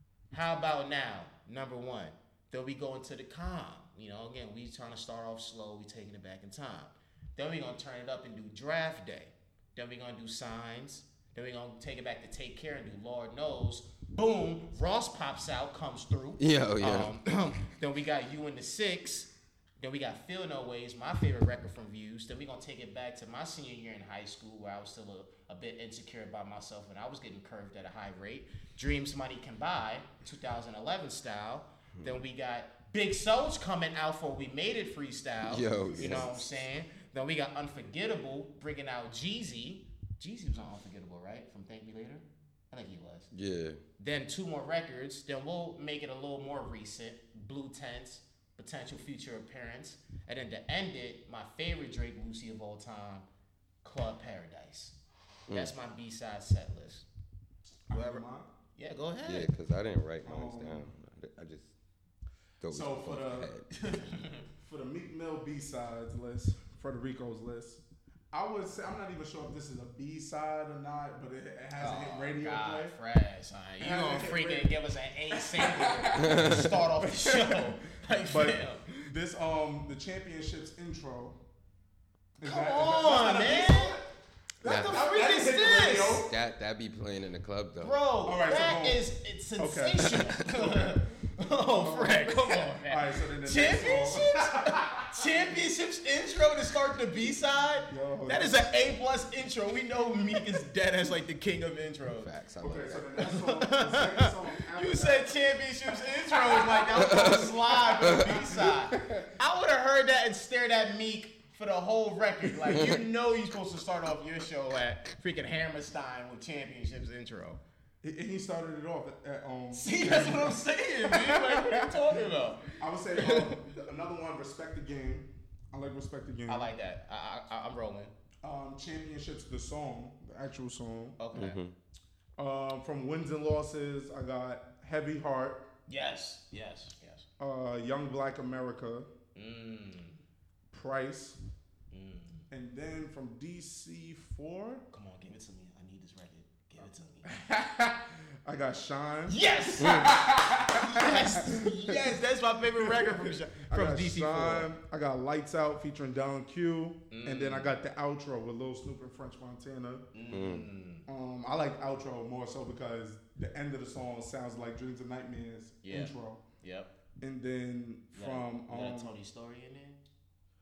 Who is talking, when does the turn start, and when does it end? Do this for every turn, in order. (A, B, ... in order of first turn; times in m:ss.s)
0:00.3-0:43.3 A
0:16.4-0:17.1 B
0:35.5-0:36.4 B
0:36.0-0:36.2 C
0:43.3-0:43.8 B
0:44.0-0:53.3 A
0:53.8-0:55.0 A
0:55.5-0:55.8 B
0:55.5-0:57.1 A
0:57.9-0:58.5 C
0:57.9-0:59.5 A
0:59.2-1:01.7 B
1:00.2-1:00.9 C
1:02.6-1:03.7 B
1:02.7-1:03.6 C
1:03.7-1:04.5 A
1:04.6-1:13.0 C
1:11.8-1:18.9 A
1:13.8-1:14.8 C
1:15.3-1:17.6 C
1:16.2-1:16.7 B
1:18.2-1:21.4 C
1:22.4-1:26.3 C
1:22.4-1:24.0 A
1:24.6-1:26.2 A
1:24.7-1:25.0 B
1:26.2-1:28.0 B
1:27.8-1:42.3 A
1:28.2-1:29.0 C
1:29.6-1:31.1 C
1:31.7-1:35.2 C
1:37.9-1:38.7 C
1:42.2-1:43.3 B
1:42.6-1:45.4 C
1:43.2-1:57.6 A
1:46.3-1:49.4 C
1:47.1-1:47.4 B
1:58.0-2:02.1 C
1:59.7-2:03.7 A
2:02.8-2:06.7 C
2:06.5-2:08.1 A
2:08.4-2:11.2 C
2:11.2-2:11.6 A
2:11.3-2:11.7 B
2:12.4-2:15.7 C
2:15.9-2:17.3 A
2:17.4-2:19.1 C
2:19.4-2:20.2 A
2:20.7-2:21.4 C
2:21.9-2:22.5 A
2:22.5-2:24.8 C
2:24.9-2:27.3 A
2:27.2-2:32.2 C
2:29.3-2:34.7 A
2:32.8-2:40.1 C
2:37.1-2:37.8 A
2:40.1-2:41.1 A
2:40.3-2:40.7 B
2:41.1-2:46.4 C
2:45.8-2:46.9 A
2:47.2-2:49.2 C
2:48.1-2:50.0 A